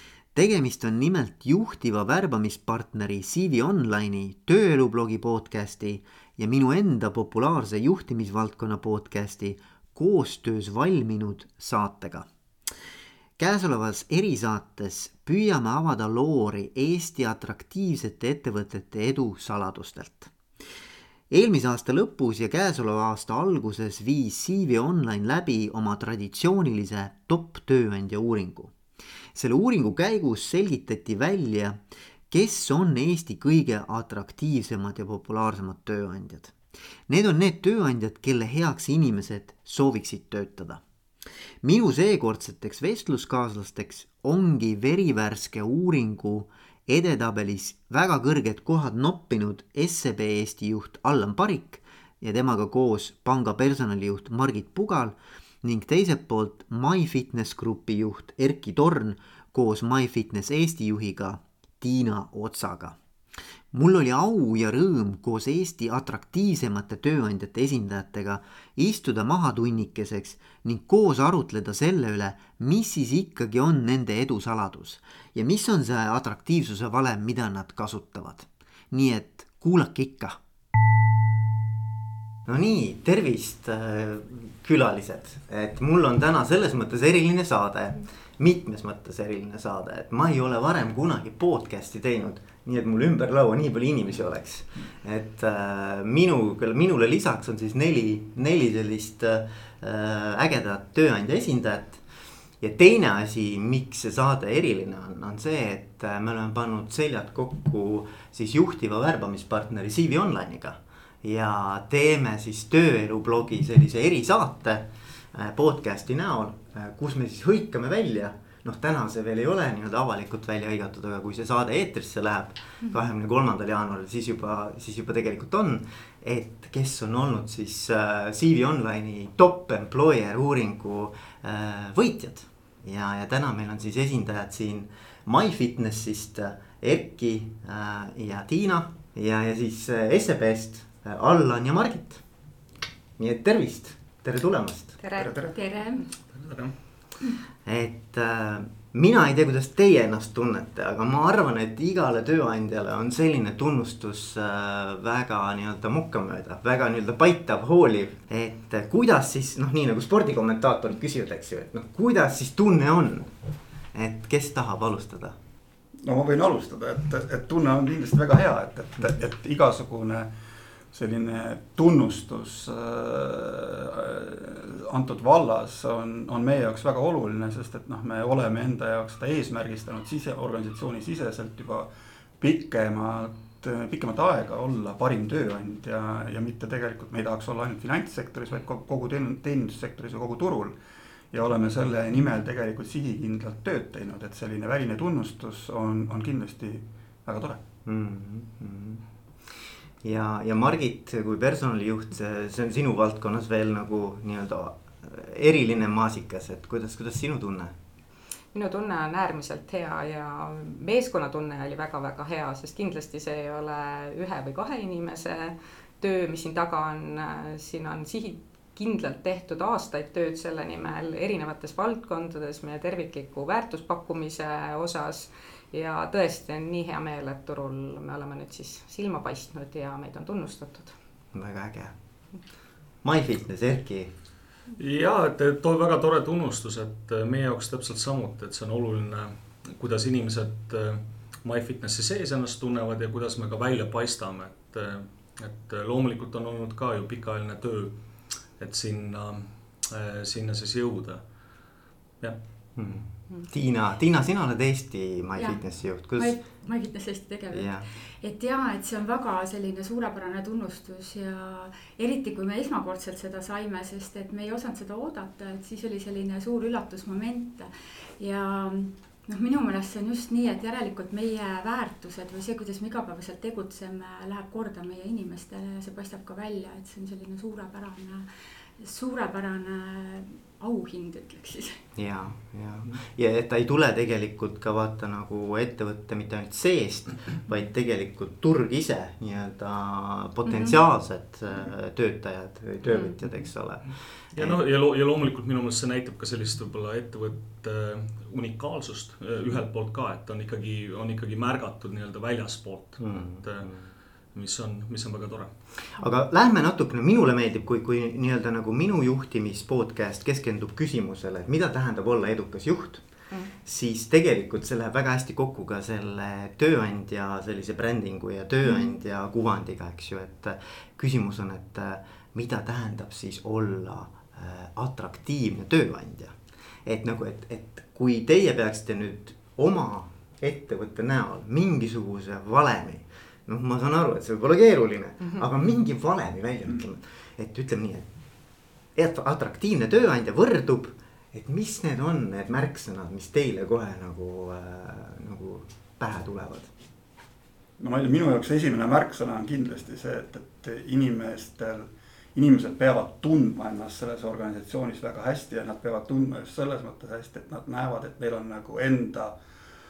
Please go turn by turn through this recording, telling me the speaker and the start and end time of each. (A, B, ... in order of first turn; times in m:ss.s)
0:00.3-0:12.3 A
0:13.4-0:20.3 A
0:21.3-0:28.7 A
0:29.3-0:36.6 A
0:37.1-0:40.8 A
0:41.6-1:03.0 A
1:03.7-1:20.4 A
1:22.4-1:42.0 A
1:42.6-2:22.2 A
2:23.2-2:25.0 A
2:25.0-2:25.3 B
2:25.2-2:25.6 C
2:25.5-2:26.0 D
2:26.3-2:26.7 E
2:27.6-2:43.3 A
2:43.9-2:45.4 A
2:46.0-2:50.3 C
2:50.9-3:10.8 C
3:11.3-3:17.6 C
3:17.8-3:27.8 A
3:28.5-3:50.9 B
3:51.3-3:51.9 A
3:53.0-3:54.1 A
3:54.8-4:11.2 E
4:12.8-4:16.4 A
4:15.4-4:38.3 D
4:17.5-4:17.9 A
4:38.8-4:41.8 D
4:42.0-4:54.6 A
4:50.4-4:50.8 D
4:54.3-5:03.7 E
5:03.0-5:03.9 A
5:04.3-5:05.5 E
5:05.9-5:13.1 A
5:13.6-5:38.1 A
5:38.9-5:46.7 A
5:47.8-5:59.4 C